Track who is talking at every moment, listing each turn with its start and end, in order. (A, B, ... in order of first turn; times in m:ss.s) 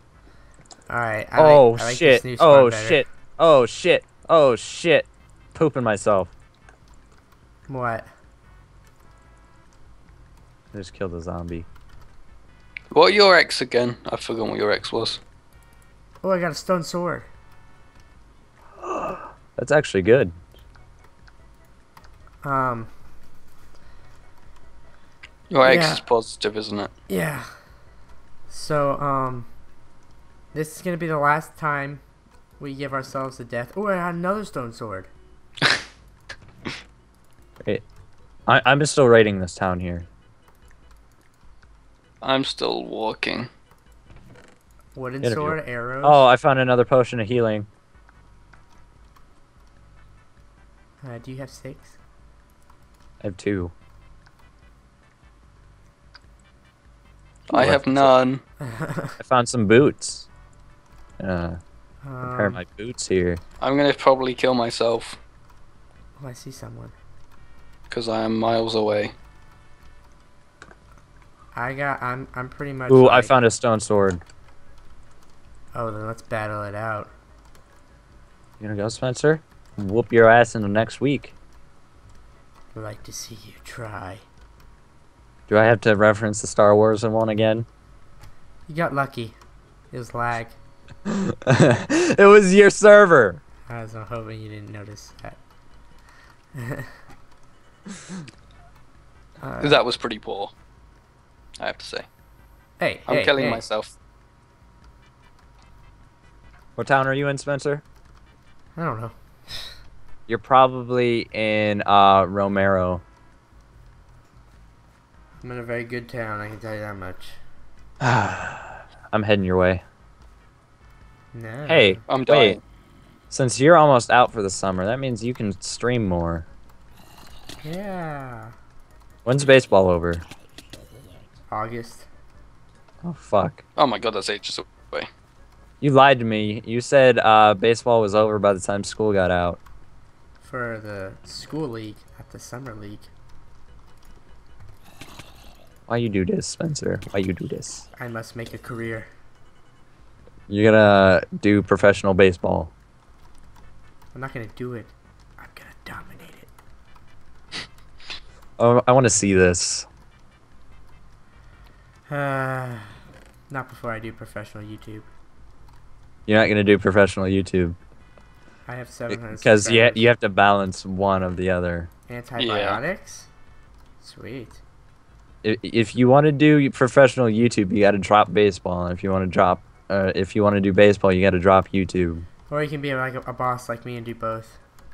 0:00.9-0:03.0 A
0:01.4-0:06.3 B
0:07.7-0:08.1 A
0:10.7-0:11.7 B
0:12.9-0:15.2 C
0:16.2-0:17.3 A
0:18.8-0:20.4 B
0:22.4-0:22.9 A
0:25.5-0:26.9 C
0:25.6-0:26.0 A
0:27.1-0:27.5 A
0:28.5-0:29.5 A
0:30.5-0:32.0 A
0:32.6-0:35.1 A
0:38.5-0:40.1 B
0:42.2-0:43.5 C
0:44.9-0:46.2 A
0:45.2-0:47.7 B
0:51.0-0:52.0 A
0:53.2-0:53.7 B
0:57.5-0:58.4 C
0:57.5-0:58.1 B
0:58.6-0:59.2 A
0:59.2-1:00.3 B
1:01.2-1:01.6 B
1:02.0-1:02.6 A
1:02.2-1:03.4 B
1:03.6-1:05.2 C
1:06.2-1:07.0 A
1:07.9-1:09.1 C
1:11.5-1:13.3 A
1:12.9-1:14.2 B
1:15.7-1:17.1 A
1:18.6-1:21.3 B
1:22.7-1:24.2 A
1:25.5-1:27.6 B
1:28.7-1:29.4 A
1:29.9-1:30.6 A
1:31.1-1:33.4 B
1:33.7-1:35.4 A
1:36.6-1:36.9 A
1:39.4-1:39.8 A
1:39.6-1:40.5 C
1:41.6-1:42.0 C
1:42.8-1:43.6 A
1:43.1-1:43.9 C
1:46.8-1:47.8 B
1:48.8-1:49.7 A
1:50.3-1:53.0 B
1:55.4-1:57.4 A
1:58.0-1:59.8 B
2:01.3-2:02.0 A
2:01.7-2:02.6 B
2:02.1-2:02.6 C
2:03.3-2:06.4 B
2:07.6-2:08.5 A
2:09.2-2:10.2 B
2:11.5-2:12.1 A
2:13.0-2:13.6 B
2:13.8-2:15.1 C
2:15.8-2:19.6 B
2:20.4-2:23.1 A
2:25.9-2:27.8 B
2:28.0-2:29.1 A
2:30.5-2:32.7 B
2:34.1-2:36.5 A
2:38.6-2:39.9 B
2:42.1-2:42.9 A
2:43.5-2:45.1 A
2:46.3-2:47.8 B
2:48.6-2:50.1 A
2:49.1-2:51.9 B
2:52.1-2:53.3 A
2:52.4-2:52.8 C
2:54.0-2:54.6 A
2:55.4-3:02.2 B
3:02.5-3:04.6 A